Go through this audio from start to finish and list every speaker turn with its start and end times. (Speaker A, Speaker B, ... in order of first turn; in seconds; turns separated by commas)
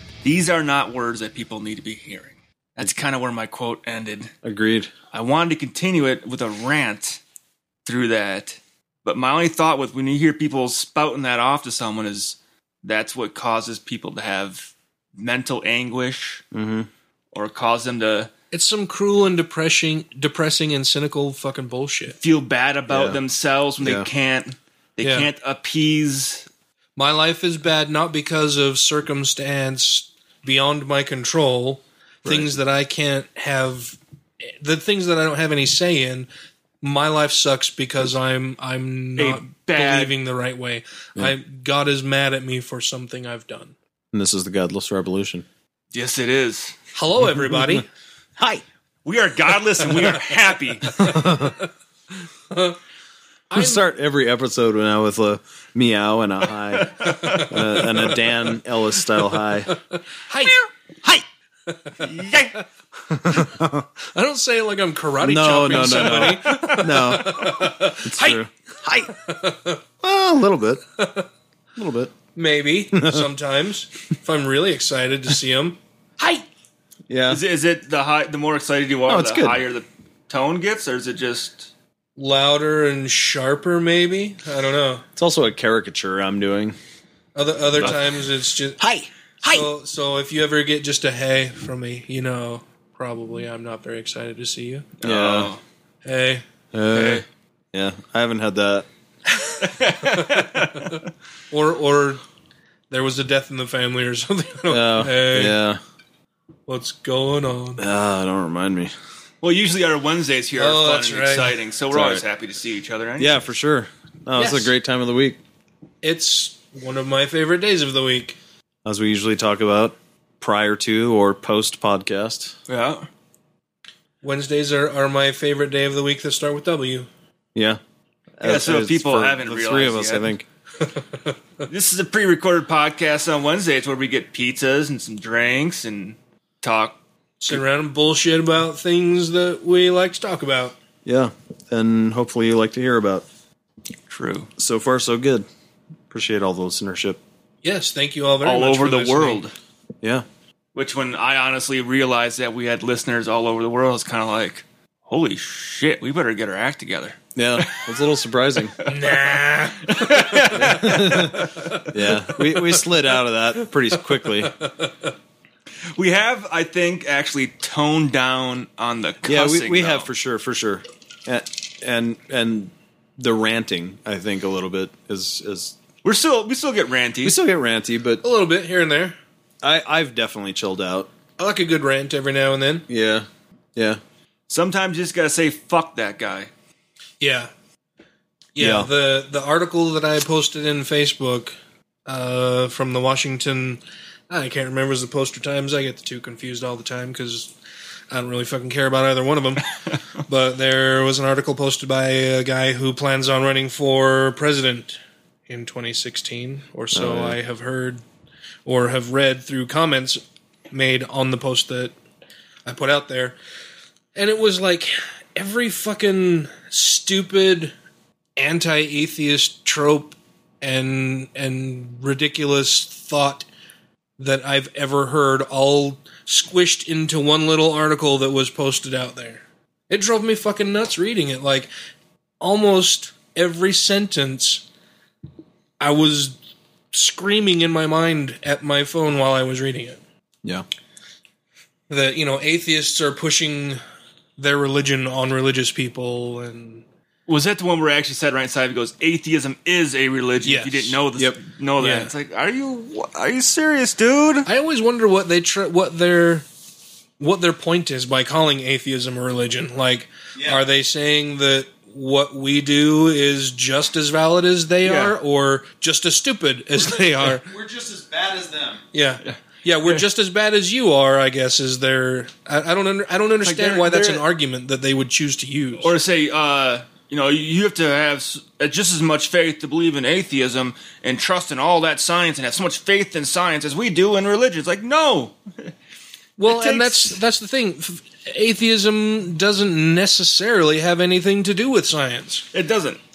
Speaker A: 0.2-4.3, Speaker B: 4.4-4.9, Speaker A: 5.1-7.2, Speaker A: 7.8-16.4, Speaker B: 16.5-16.9, Speaker A: 17.3-18.3, Speaker C: 18.5-22.1, Speaker A: 22.1-26.5, Speaker B: 22.9-23.2, Speaker B: 23.8-24.1, Speaker C: 25.0-25.3, Speaker C: 27.0-36.3, Speaker B: 32.2-32.5, Speaker C: 36.8-43.7, Speaker A: 39.2-40.1, Speaker B: 44.1-45.4, Speaker A: 45.9-46.8, Speaker C: 46.9-47.9, Speaker B: 47.2-47.8, Speaker B: 48.4-48.6, Speaker A: 49.0-51.1, Speaker B: 51.0-51.6, Speaker C: 51.0-51.3, Speaker C: 52.5-52.8, Speaker C: 53.5-53.8, Speaker B: 53.5-59.7, Speaker A: 56.7-57.5, Speaker C: 57.0-57.4, Speaker C: 60.3-60.6, Speaker C: 61.7-62.3, Speaker A: 62.0-62.5, Speaker B: 63.1-63.9, Speaker C: 64.1-68.4, Speaker B: 65.2-69.2, Speaker A: 65.7-67.0, Speaker C: 69.2-69.8, Speaker B: 70.0-70.8, Speaker C: 71.0-71.3, Speaker B: 71.8-72.1, Speaker C: 72.3-76.4, Speaker B: 72.9-73.3, Speaker B: 77.1-77.4, Speaker A: 77.3-81.7, Speaker B: 79.1-79.6, Speaker C: 82.2-85.0, Speaker B: 85.2-86.8, Speaker C: 87.3-88.8, Speaker B: 88.8-89.7, Speaker C: 89.4-94.9, Speaker A: 95.0-95.6, Speaker B: 95.0-95.5, Speaker C: 96.0-96.4, Speaker B: 96.7-98.9, Speaker A: 96.9-97.2, Speaker A: 99.5-101.0, Speaker C: 100.1-102.2, Speaker C: 102.9-105.6, Speaker B: 104.7-105.8, Speaker C: 106.7-107.8, Speaker B: 107.8-108.9, Speaker A: 109.4-113.4, Speaker C: 110.6-111.5, Speaker B: 111.9-112.2, Speaker B: 113.2-115.4, Speaker C: 114.3-114.7, Speaker C: 116.0-118.4, Speaker B: 118.8-122.5, Speaker A: 122.7-123.1, Speaker C: 124.2-127.1, Speaker B: 127.5-127.8, Speaker B: 128.4-130.4, Speaker A: 128.4-130.3, Speaker A: 131.7-137.0, Speaker C: 137.4-140.8, Speaker B: 141.0-143.2, Speaker A: 144.1-144.5, Speaker B: 144.6-145.4, Speaker B: 146.1-147.2, Speaker C: 147.6-149.4, Speaker A: 148.4-149.5, Speaker A: 150.7-157.8, Speaker B: 157.3-158.8, Speaker C: 158.8-160.4, Speaker A: 158.9-159.3, Speaker A: 159.8-161.7, Speaker B: 160.5-164.5, Speaker A: 165.9-170.1, Speaker B: 169.2-175.7, Speaker A: 176.0-177.4, Speaker B: 177.2-178.2, Speaker C: 178.2-179.2, Speaker B: 179.6-181.1, Speaker C: 181.4-182.8, Speaker B: 182.9-184.0, Speaker A: 184.5-186.5, Speaker C: 187.2-187.5, Speaker C: 188.5-191.5, Speaker B: 188.6-188.9, Speaker C: 192.1-197.5, Speaker C: 198.1-199.7, Speaker C: 200.3-205.0, Speaker C: 205.5-208.0, Speaker B: 206.9-207.4, Speaker C: 208.7-211.9, Speaker C: 212.6-213.3, Speaker C: 214.1-217.7, Speaker C: 218.4-223.4, Speaker C: 224.2-231.7, Speaker C: 232.4-234.6, Speaker C: 235.8-236.3, Speaker C: 236.9-240.0, Speaker C: 241.9-243.8, Speaker C: 244.4-246.8, Speaker A: 247.3-254.5, Speaker C: 250.4-251.0, Speaker C: 251.8-252.1, Speaker C: 254.4-256.4, Speaker C: 257.2-267.5, Speaker B: 260.3-260.7, Speaker A: 264.8-265.1, Speaker B: 266.9-268.8, Speaker C: 268.9-275.9, Speaker A: 269.2-270.0, Speaker A: 273.4-274.2, Speaker A: 275.8-285.7, Speaker C: 286.4-292.4, Speaker A: 286.4-287.2, Speaker A: 292.5-293.0